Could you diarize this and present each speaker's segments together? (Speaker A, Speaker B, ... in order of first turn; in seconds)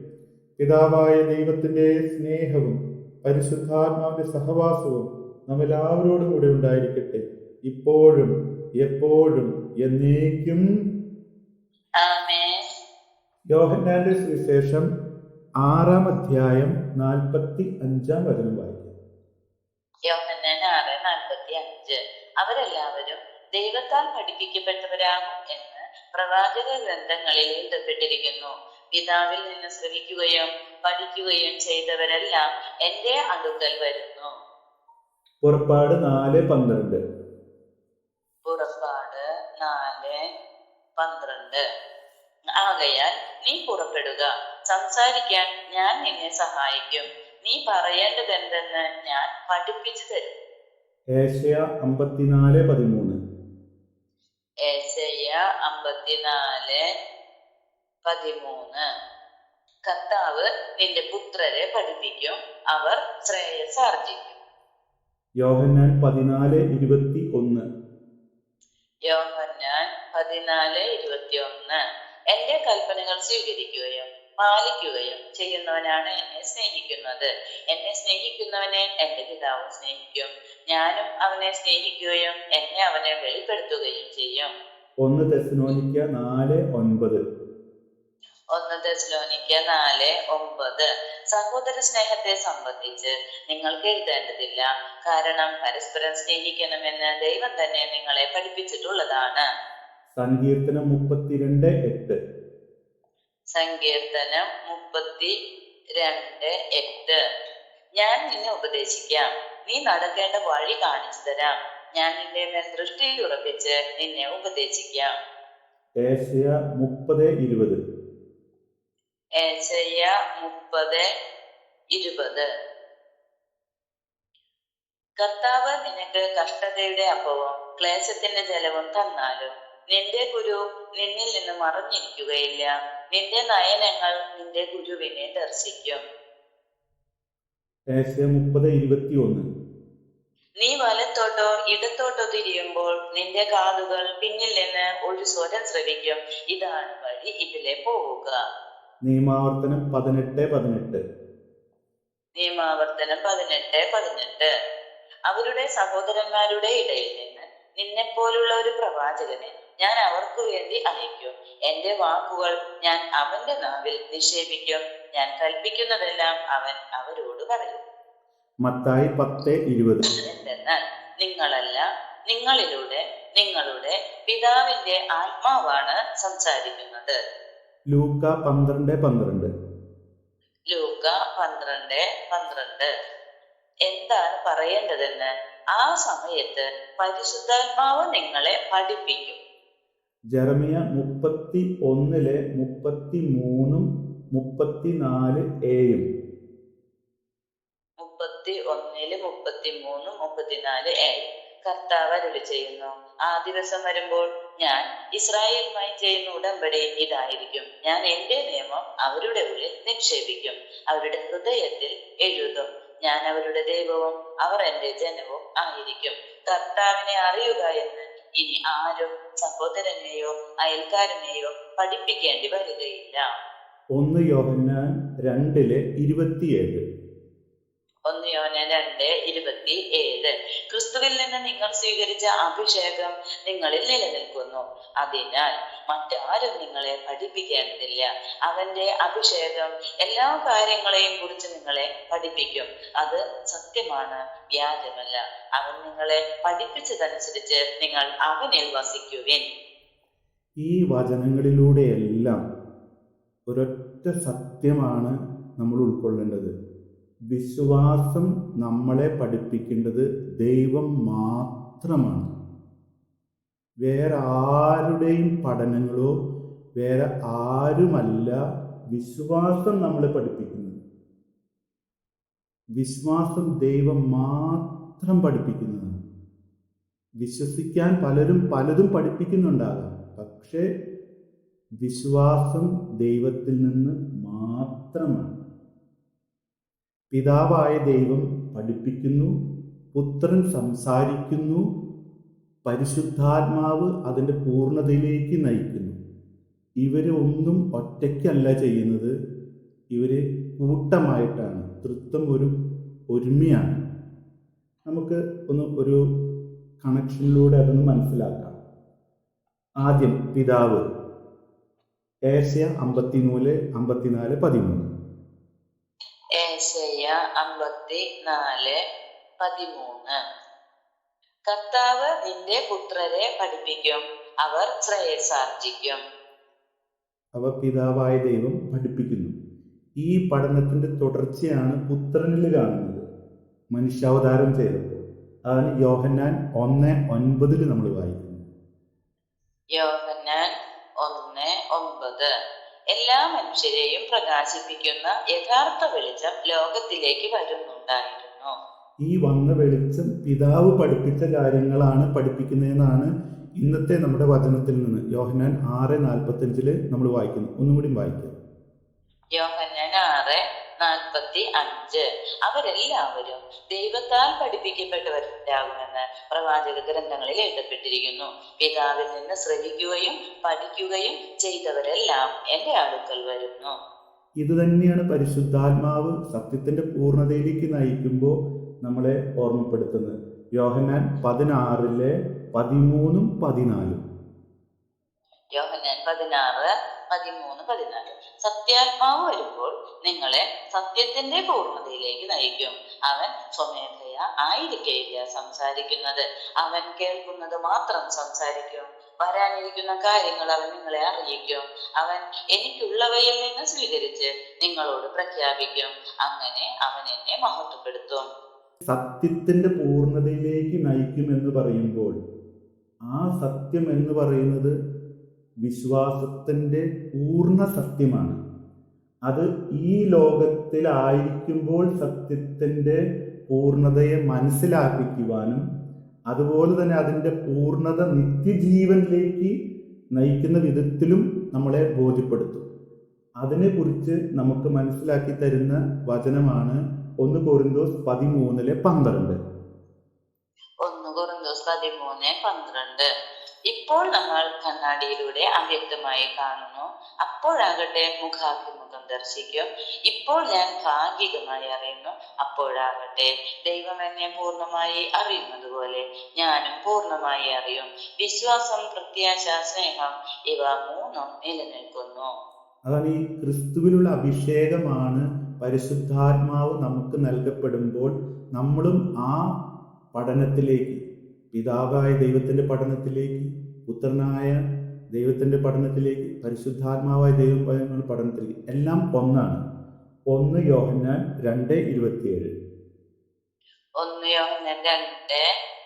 Speaker A: 0.6-10.6, 13.5-14.9, 15.6-18.9, 35.4-37.0, 51.1-53.2, 65.4-67.7, 85.0-87.2, 100.1-102.2, 116.0-117.8, 137.9-139.4, 149.0-151.0, 168.6-170.1, 177.9-179.5, 190.3-196.0, 223.9-226.8, 250.6-252.4, 253.5-256.5, 257.3-262.3, 263.8-266.1, 266.8-268.4, 268.9-270.8, 272.8-276.0, 277.2-280.7, 281.8-285.3, 287.1-289.3, 289.9-291.7, 292.6-295.9, 296.8-299.1, 299.9-302.5, 303.1-303.8, 304.9-306.0, 306.8-308.6, 309.8-310.8, 312.3-314.9, 327.3-329.3, 330.0-333.0, 333.7-338.4, 349.0-358.3, 374.4-384.0, 408.8-412.2, 413.1-414.7, 415.6-418.4, 419.3-425.6, 426.3-429.5, 430.1-432.6, 433.4-439.4, 462.8-469.5, 470.1-471.0, 471.5-474.6, 475.1-479.6, 480.3-482.5
Speaker B: 12.0-12.6, 20.1-34.3, 38.4-40.2, 41.0-41.6, 42.6-50.3, 54.6-56.8, 58.0-58.8, 59.9-64.4, 69.0-71.8, 72.3-84.5, 88.5-99.4, 103.5-105.3, 106.0-107.2, 108.0-115.1, 119.4-121.0, 121.9-122.5, 125.2-136.0, 140.6-148.4, 152.3-154.5, 155.3-167.8, 170.2-177.2, 180.7-182.9, 183.9-189.4, 198.0-223.2, 228.1-249.4, 316.4-318.8, 319.4-320.1, 321.5-326.0, 339.7-342.3, 342.9-348.5, 359.3-373.7, 385.5-408.2, 440.8-443.1, 443.7-462.3, 484.0-485.4